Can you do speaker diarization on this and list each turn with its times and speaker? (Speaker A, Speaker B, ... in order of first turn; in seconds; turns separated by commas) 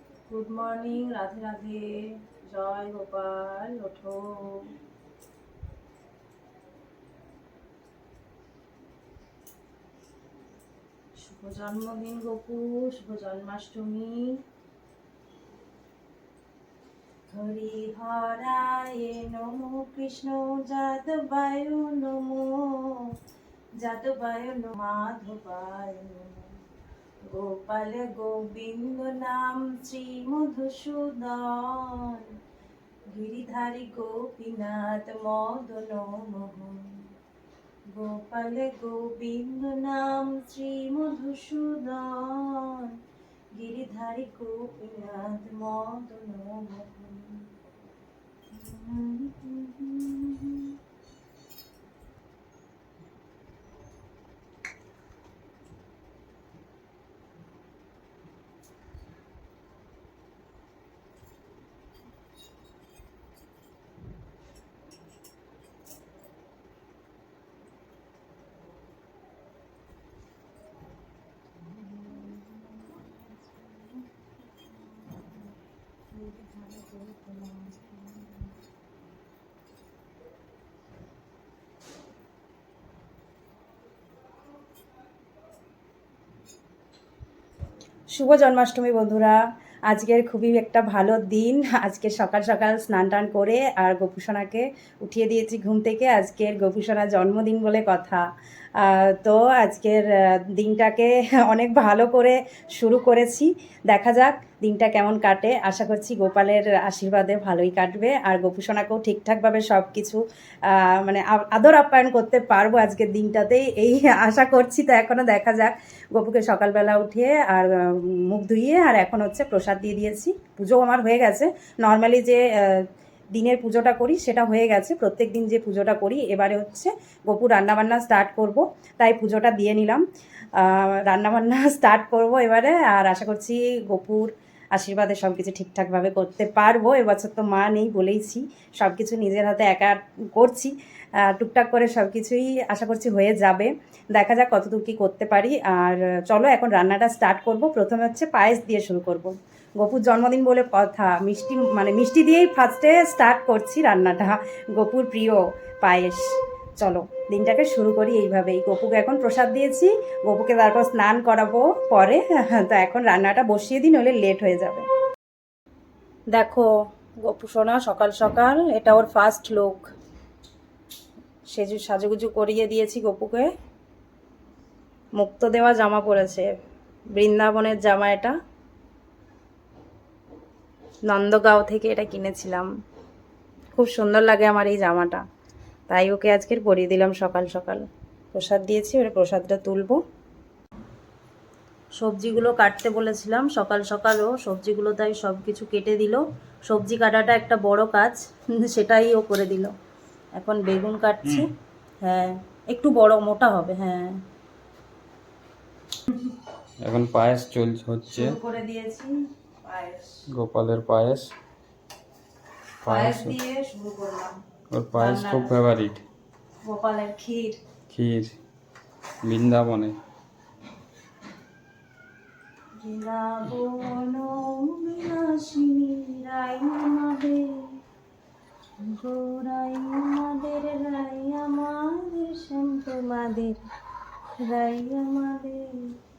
Speaker A: 0.3-4.7, Speaker A: 11.2-14.4, Speaker A: 17.3-23.1, Speaker A: 23.8-26.5, Speaker A: 27.2-32.3, Speaker A: 33.1-37.1, Speaker A: 37.9-43.0, Speaker A: 43.5-47.5, Speaker A: 48.5-50.7, Speaker A: 71.6-75.5, Speaker A: 76.1-78.6, Speaker A: 88.1-98.2, Speaker A: 98.8-130.0, Speaker A: 130.6-164.9, Speaker A: 166.3-166.7, Speaker A: 167.2-169.9, Speaker A: 171.5-173.5, Speaker A: 175.2-176.5, Speaker A: 177.1-178.3, Speaker A: 181.1-182.7, Speaker A: 183.7-185.2, Speaker A: 185.9-190.0, Speaker A: 192.0-199.7, Speaker A: 200.3-201.5, Speaker A: 202.0-204.2, Speaker B: 206.8-208.4, Speaker A: 208.1-210.2, Speaker B: 210.3-211.3, Speaker B: 212.8-213.4, Speaker A: 212.8-214.3, Speaker B: 214.7-216.0, Speaker A: 214.9-215.6, Speaker A: 216.6-217.6, Speaker B: 217.9-218.4, Speaker B: 219.2-219.9, Speaker A: 222.8-227.8, Speaker A: 228.8-233.6, Speaker A: 234.3-235.9